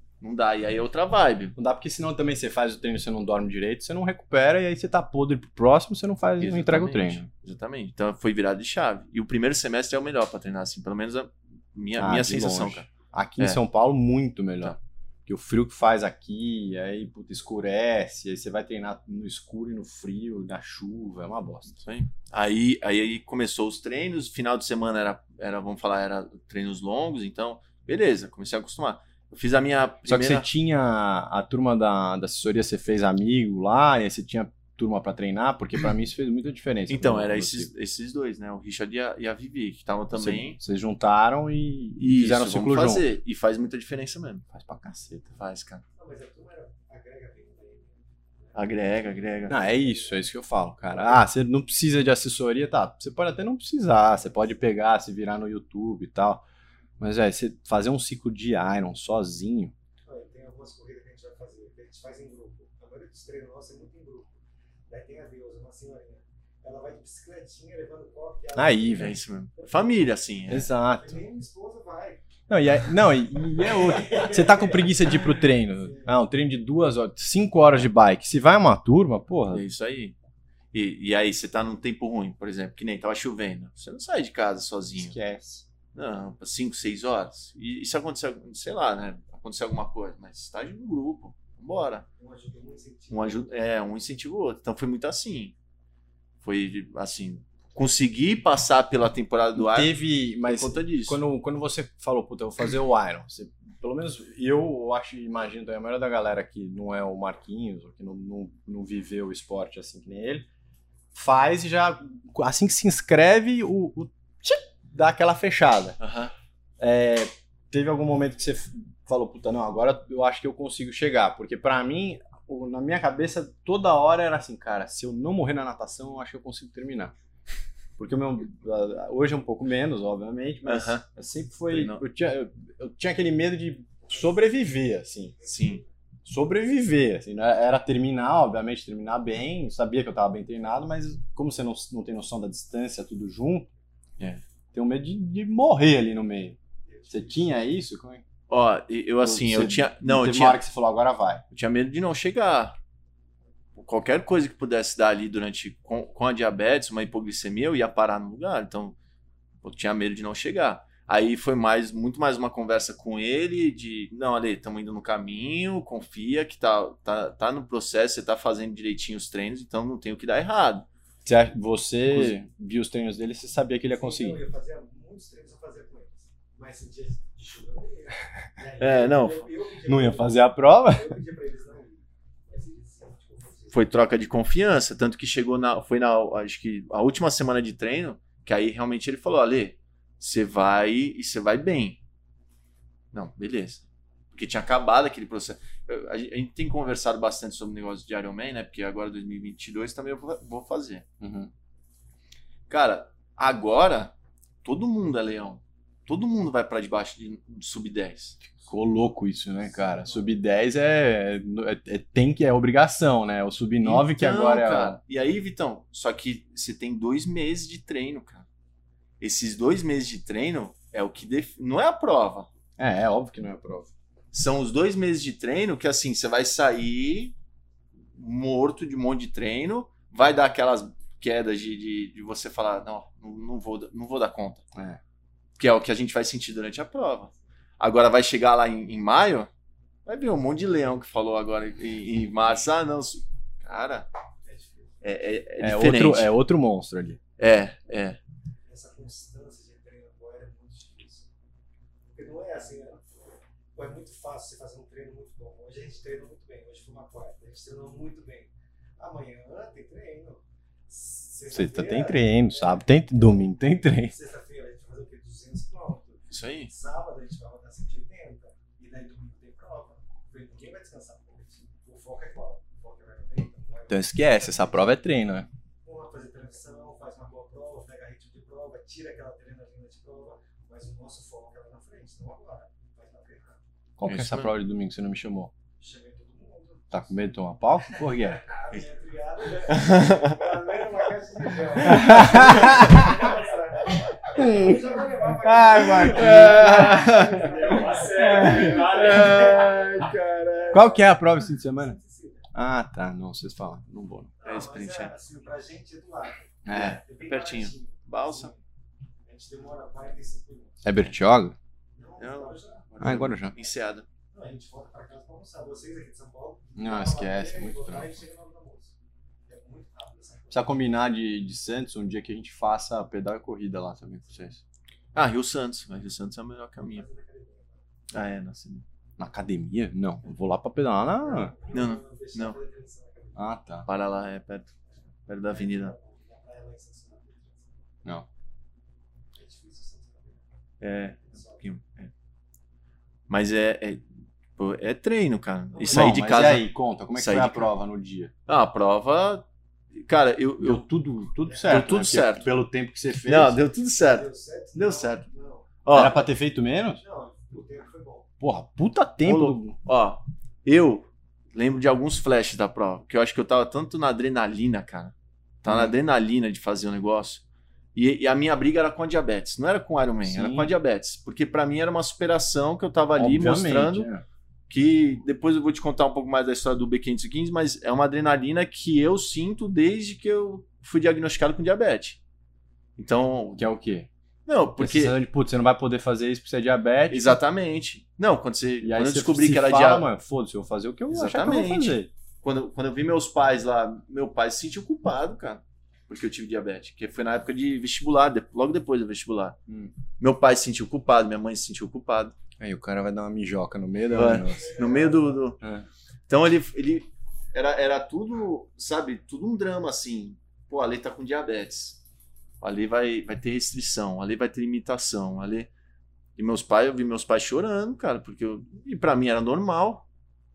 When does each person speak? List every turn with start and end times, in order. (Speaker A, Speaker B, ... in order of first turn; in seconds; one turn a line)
Speaker A: 0.2-1.5
Speaker B: 1.6-7.3
Speaker A: 6.4-12.9
Speaker B: 12.0-21.8
Speaker A: 21.8-30.5
Speaker B: 30.1-37.7
Speaker A: 36.9-40.6
Speaker B: 40.1-43.0
Speaker A: 42.0-44.5
Speaker B: 44.5-45.3
Speaker A: 45.4-45.8
Speaker C: 46.0-48.6
Speaker A: 48.5-49.6
Speaker C: 49.5-50.3
Speaker B: 49.5-56.4
Speaker C: 50.9-51.2
Speaker B: 57.0-59.7
Speaker C: 60.1-70.0
Speaker B: 68.6-69.1
Speaker A: 69.0-70.7
Speaker B: 70.5-71.2
Speaker C: 70.9-72.2
Speaker B: 72.5-79.7
Speaker C: 73.6-76.1
Speaker A: 79.5-80.2
Speaker A: 80.7-85.2
Speaker B: 85.0-85.7
Speaker A: 85.9-92.0
Speaker C: 92.2-93.5
Speaker A: 93.1-95.5
Speaker A: 96.4-99.9
Speaker B: 99.6-110.5
Speaker A: 100.5-101.2
Speaker B: 111.1-116.0
Speaker A: 116.0-116.3
Speaker B: 116.8-127.1
Speaker B: 128.0-135.4
Speaker A: 130.7-131.0
Speaker A: 131.7-132.0
Speaker C: 135.4-135.8
Speaker A: 135.5-135.8
Speaker B: 136.2-143.7
Speaker B: 144.7-146.6
Speaker C: 146.9-147.5
Speaker B: 147.1-148.2
Speaker A: 148.5-150.6
Speaker B: 149.2-151.4
Speaker A: 151.5-152.8
Speaker A: 153.8-159.0
Speaker A: 159.6-170.9
Speaker B: 171.2-174.4
Speaker A: 172.1-172.4
Speaker C: 173.9-183.9
Speaker A: 178.8-179.5
Speaker B: 179.9-181.1
Speaker A: 183.7-192.0
Speaker A: 193.1-201.1
Speaker B: 201.2-201.5
Speaker A: 202.7-204.1
Speaker A: 204.6-208.4
Speaker B: 208.4-215.0
Speaker C: 209.6-210.4
Speaker A: 213.8-218.5
Speaker A: 219.2-222.5
Speaker B: 222.8-223.9
Speaker A: 224.3-227.3
Speaker A: 228.1-234.7
Speaker A: 235.6-239.5
Speaker A: 240.1-244.1
Speaker C: 244.5-244.9
Speaker A: 245.0-246.3
Speaker B: 245.6-247.2
Speaker A: 247.4-248.2
Speaker C: 248.7-251.3
Speaker C: 252.1-253.1
Speaker C: 253.8-275.0
Speaker B: 261.5-264.1
Speaker A: 266.3-266.7
Speaker B: 273.9-275.5
Speaker C: 275.8-283.6
Speaker B: 284.0-285.5
Speaker A: 284.1-284.5
Speaker C: 285.8-287.2
Speaker B: 286.9-288.4
Speaker C: 287.9-302.4
Speaker A: 289.7-290.4
Speaker B: 291.8-293.2
Speaker B: 294.3-294.8
Speaker B: 295.4-297.5
Speaker A: 296.0-300.9
Speaker B: 298.1-299.4
Speaker B: 300.7-302.0
Speaker B: 302.5-304.3
Speaker C: 304.4-308.6
Speaker A: 304.4-305.1
Speaker B: 306.7-307.0
Speaker A: 306.7-308.5
Speaker C: 309.3-310.9
Speaker B: 310.8-311.6
Speaker C: 311.9-312.9
Speaker A: 312.2-314.1
Speaker B: 313.0-313.5
Speaker C: 314.3-318.9
Speaker B: 316.8-318.2
Speaker C: 319.5-320.8
Speaker B: 320.5-324.5
Speaker A: 325.1-327.0
Speaker C: 326.9-327.8
Speaker A: 328.1-328.9
Speaker B: 329.2-331.5
Speaker C: 331.2-333.5
Speaker A: 331.7-332.6
Speaker B: 333.4-333.9
Speaker A: 333.9-334.7
Speaker C: 335.0-337.8
Speaker A: 335.3-335.9
Speaker C: 339.4-340.4
Speaker A: 340.8-342.1
Speaker C: 341.3-341.6
Speaker A: 343.3-344.1
Speaker A: 344.6-347.7
Speaker C: 345.7-346.3
Speaker B: 345.9-348.3
Speaker A: 348.5-350.9
Speaker B: 350.6-353.6
Speaker C: 351.5-352.2
Speaker A: 351.7-352.5
Speaker A: 353.3-355.3
Speaker C: 354.0-355.7
Speaker A: 355.9-356.2
Speaker B: 355.9-357.0
Speaker C: 357.0-358.3
Speaker B: 358.4-359.8
Speaker A: 359.2-367.4
Speaker B: 365.7-365.9
Speaker A: 367.9-374.1
Speaker B: 370.2-370.7
Speaker B: 373.2-374.2
Speaker A: 374.7-382.2
Speaker A: 383.0-383.7
Speaker B: 383.6-384.1
Speaker A: 384.5-385.2
Speaker B: 384.8-387.4
Speaker A: 387.1-390.1
Speaker B: 388.8-392.1
Speaker A: 391.1-399.6
Speaker A: 400.2-402.4
Speaker B: 402.6-404.7
Speaker A: 404.1-405.6
Speaker C: 404.5-405.5
Speaker B: 405.6-405.9
Speaker A: 406.3-412.0
Speaker A: 412.6-415.7
Speaker A: 416.4-420.1